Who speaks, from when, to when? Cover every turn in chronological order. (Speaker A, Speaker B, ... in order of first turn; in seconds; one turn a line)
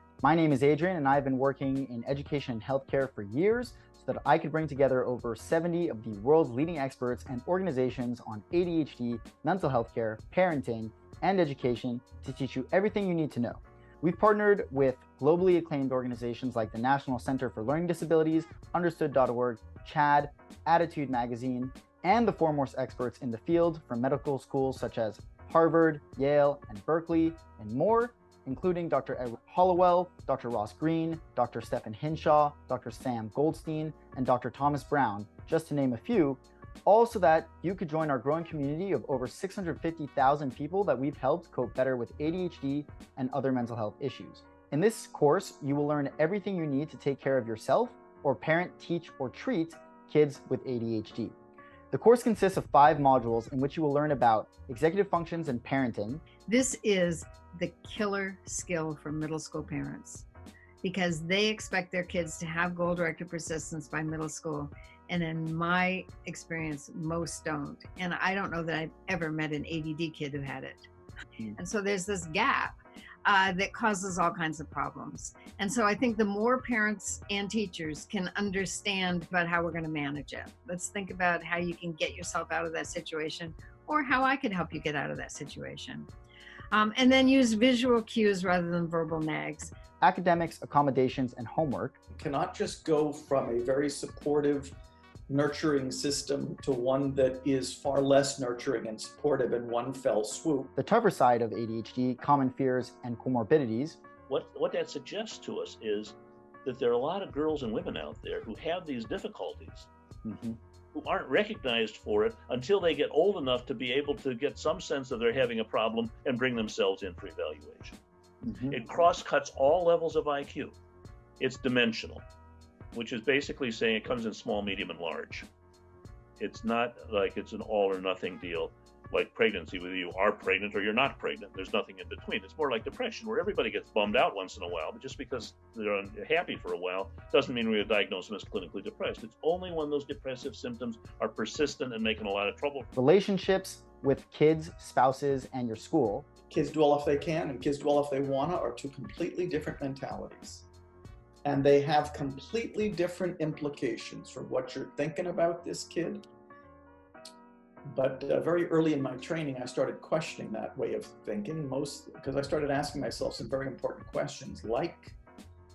Speaker A: 0.2-51.4
Speaker A: 51.9-56.2
Speaker B: 56.5-60.2
Speaker B: 60.8-70.9
Speaker B: 71.5-72.7
Speaker B: 73.2-86.1
Speaker B: 86.7-89.7
Speaker A: 90.0-92.0
Speaker C: 92.1-94.7
Speaker C: 95.3-100.7
Speaker A: 100.8-104.0
Speaker D: 104.3-109.9
Speaker A: 110.2-110.6
Speaker D: 110.9-118.0
Speaker A: 118.4-118.8
Speaker D: 118.7-120.8
Speaker D: 121.4-122.2
Speaker D: 122.9-125.5
Speaker D: 126.4-142.9
Speaker A: 142.9-146.3
Speaker C: 146.5-150.7
Speaker C: 151.4-156.3
Speaker C: 157.9-165.1